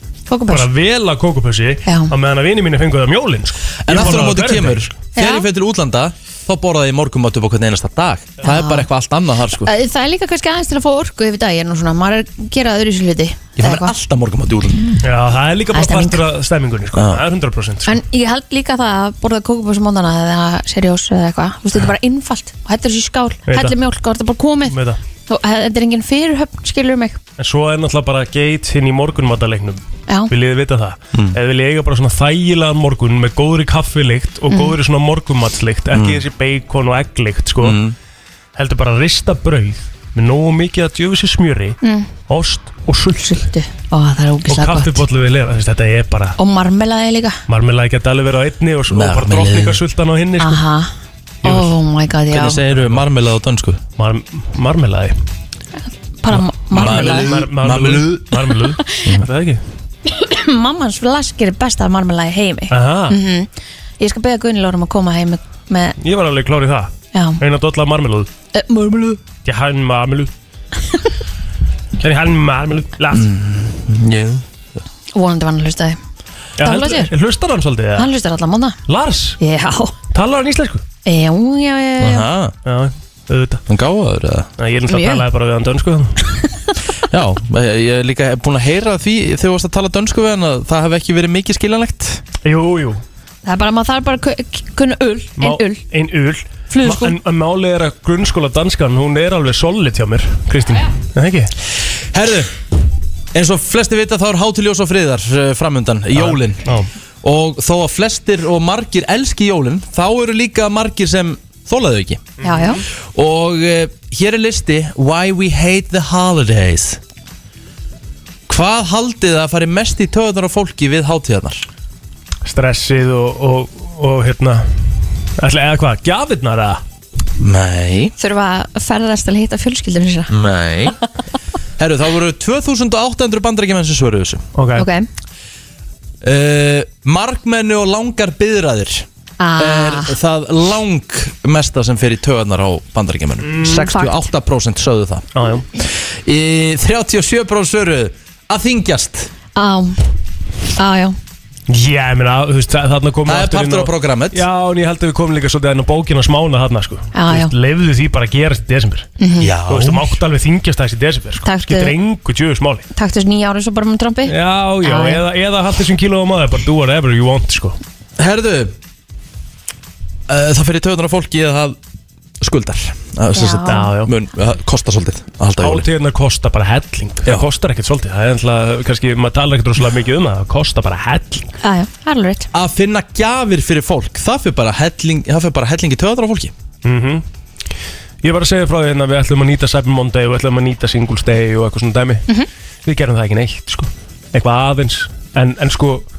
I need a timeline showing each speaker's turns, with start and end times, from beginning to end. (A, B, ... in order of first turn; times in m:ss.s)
0:00.3-0:00.7 A
0:00.5-0:04.9 B
0:01.8-0:02.1 A
0:03.9-0:09.7 C
0:05.2-0:05.5 A
0:08.4-0:08.9 A
0:09.5-0:13.9 A
0:13.6-0:15.0 C
0:15.0-0:18.0 B
0:15.7-0:16.2 A
0:17.0-0:17.2 C
0:17.9-0:27.2 A
0:23.5-0:23.7 B
0:24.7-0:25.0 B
0:27.4-0:37.8 B
0:30.1-0:30.3 A
0:34.5-0:34.8 A
0:35.9-0:36.2 C
0:37.6-0:38.0 C
0:38.6-0:43.5 B
0:41.8-0:42.1 A
0:43.2-0:45.0 A
0:44.5-0:46.4 B
0:46.4-0:47.4 A
0:47.5-0:50.6 B
0:48.9-0:49.8 C
0:50.4-0:50.9 A
0:51.4-0:52.6 A
0:51.4-0:51.7 B
0:52.3-0:53.8 C
0:54.0-0:55.2 B
0:55.8-0:57.4 A
0:56.3-0:59.6 B
0:56.7-0:58.3 C
0:59.0-0:59.3 C
1:00.0-1:06.0 A
1:02.7-1:03.2 B
1:06.0-1:08.3 B
1:07.1-1:07.4 A
1:08.5-1:09.2 A
1:09.4-1:10.3 B
1:12.0-1:13.3 B
1:13.1-1:14.4 C
1:15.1-1:16.0 A
1:16.6-1:18.1 B
1:16.6-1:17.1 A
1:18.0-1:18.8 A
1:18.9-1:19.4 B
1:19.4-1:20.0 A
1:20.1-1:20.8 B
1:21.0-1:22.3 A
1:22.0-1:22.5 C
1:22.6-1:23.6 B
1:23.7-1:24.5 C
1:24.6-1:26.2 B
1:24.9-1:25.3 A
1:27.1-1:32.2 C
1:32.4-1:33.0 B
1:33.4-1:35.8 A
1:35.4-1:41.5 B
1:36.7-1:37.2 A
1:42.1-1:42.5 C
1:43.3-1:46.6 C
1:46.1-1:46.9 B
1:47.2-1:52.3 C
1:52.4-1:52.7 B
1:52.4-1:52.8 A
1:53.1-1:57.0 C
1:58.5-2:01.7 C
2:02.4-2:04.7 B
2:05.4-2:06.8 B
2:07.4-2:08.1 C
2:08.2-2:10.3 A
2:10.3-2:11.0 C
2:11.8-2:14.4 C
2:14.6-2:14.9 B
2:14.8-2:15.1 A
2:16.2-2:25.3 C
2:19.4-2:20.1 A
2:23.4-2:23.9 B
2:23.6-2:24.2 A
2:25.3-2:25.6 B
2:25.8-2:29.3 C
2:29.6-2:30.1 A
2:30.8-2:31.2 A
2:31.7-2:39.1 B
2:33.3-2:34.4 C
2:37.1-2:37.5 A
2:39.2-2:39.5 A
2:39.4-2:40.2 C
2:39.7-2:42.8 B
2:41.4-2:42.0 A
2:42.9-2:45.2 A
2:44.3-2:47.8 B
2:48.2-2:48.7 C
2:50.3-2:51.8 C
2:52.4-2:55.9 C
2:53.3-2:54.0 A
2:53.7-2:54.1 B
2:55.6-3:01.5 B
3:01.6-3:02.5 A
3:02.5-3:06.5 C
3:06.8-3:07.2 B
3:08.2-3:12.3 B
3:12.8-3:16.0 B